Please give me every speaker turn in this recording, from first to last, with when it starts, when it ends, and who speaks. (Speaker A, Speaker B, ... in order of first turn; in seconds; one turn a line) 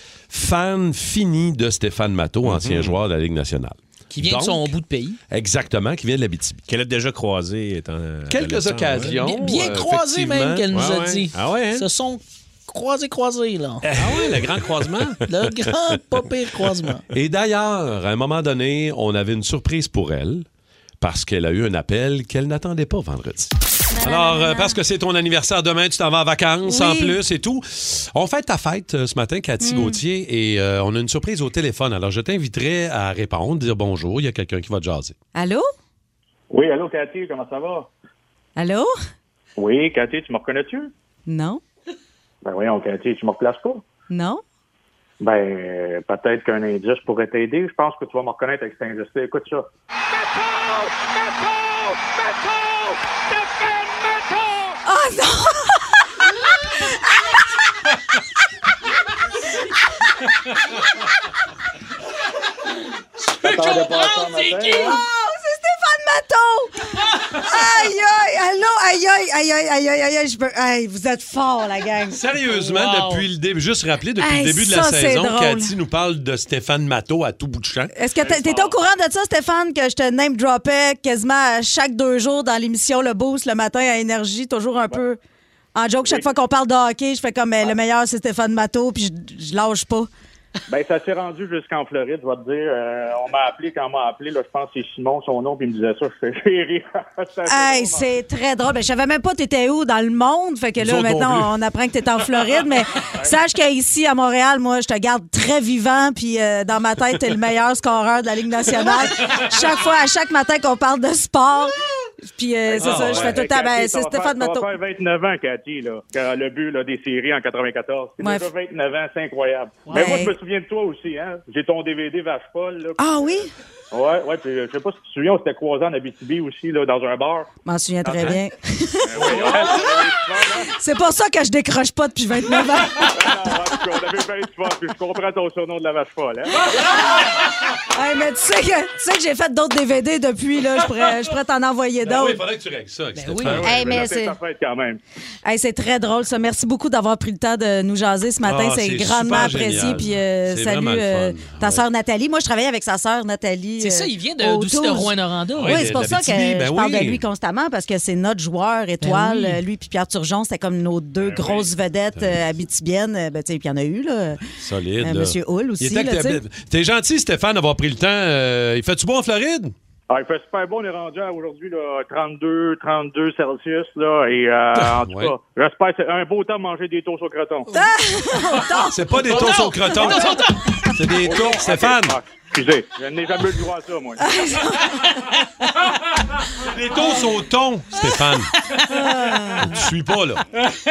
Speaker A: 0.3-4.7
Speaker B: 2.4-3.0
Speaker C: 4.1-5.2
Speaker A: 5.3-6.6
Speaker B: 6.7-9.2
Speaker A: 8.3-10.7
Speaker C: 9.2-13.9
Speaker B: 10.7-11.8
Speaker A: 13.8-15.1
Speaker B: 14.0-15.2
Speaker C: 15.3-17.0
Speaker A: 17.1-20.5
Speaker A: 21.0-35.2
Speaker D: 23.9-24.8
Speaker D: 26.6-27.2
Speaker D: 29.6-30.0
Speaker D: 35.4-35.6
Speaker E: 36.5-37.9
Speaker D: 38.6-38.9
Speaker E: 39.6-40.9
Speaker D: 41.3-41.6
Speaker E: 42.4-43.9
Speaker D: 44.1-44.4
Speaker E: 45.2-49.7
Speaker D: 54.9-56.0
Speaker D: 56.8-57.3
Speaker C: 63.3-65.0
Speaker E: 63.4-65.0
Speaker D: 64.6-72.3
Speaker A: 72.1-77.9
Speaker C: 72.5-73.2
Speaker D: 74.2-75.7
Speaker D: 77.9-85.2
Speaker E: 78.2-78.8
Speaker D: 85.8-90.1
Speaker E: 86.0-86.3
Speaker E: 90.7-98.1
Speaker D: 97.5-114.7
Speaker A: 100.8-101.5
Speaker E: 112.7-123.2
Speaker A: 112.8-113.4
Speaker D: 118.2-118.5
Speaker D: 119.9-120.4
Speaker D: 123.0-123.5
Speaker E: 123.9-127.5
Speaker D: 127.6-133.3
Speaker E: 128.1-128.4
Speaker E: 129.1-130.7
Speaker E: 133.0-136.7
Speaker D: 136.7-137.2
Speaker D: 137.9-142.4
Speaker A: 142.0-144.0
Speaker C: 143.1-143.7
Speaker D: 143.5-144.4
Speaker E: 143.6-145.0
Speaker D: 145.4-164.4
Speaker A: 148.4-151.8
Speaker C: 153.8-155.9
Speaker A: 155.6-157.2
Speaker C: 159.0-159.6
Speaker A: 162.2-162.4
Speaker A: 164.6-169.7
Speaker D: 165.0-166.4
Speaker E: 170.1-177.7
Speaker A: 174.8-175.3
Speaker D: 177.7-180.9
Speaker A: 178.8-180.4
Speaker C: 179.3-180.7
Speaker A: 180.9-182.2
Speaker E: 181.2-184.2
Speaker D: 184.2-185.2
Speaker A: 186.6-188.5
Speaker D: 187.0-187.3
Speaker D: 188.8-189.8
Speaker A: 189.6-190.4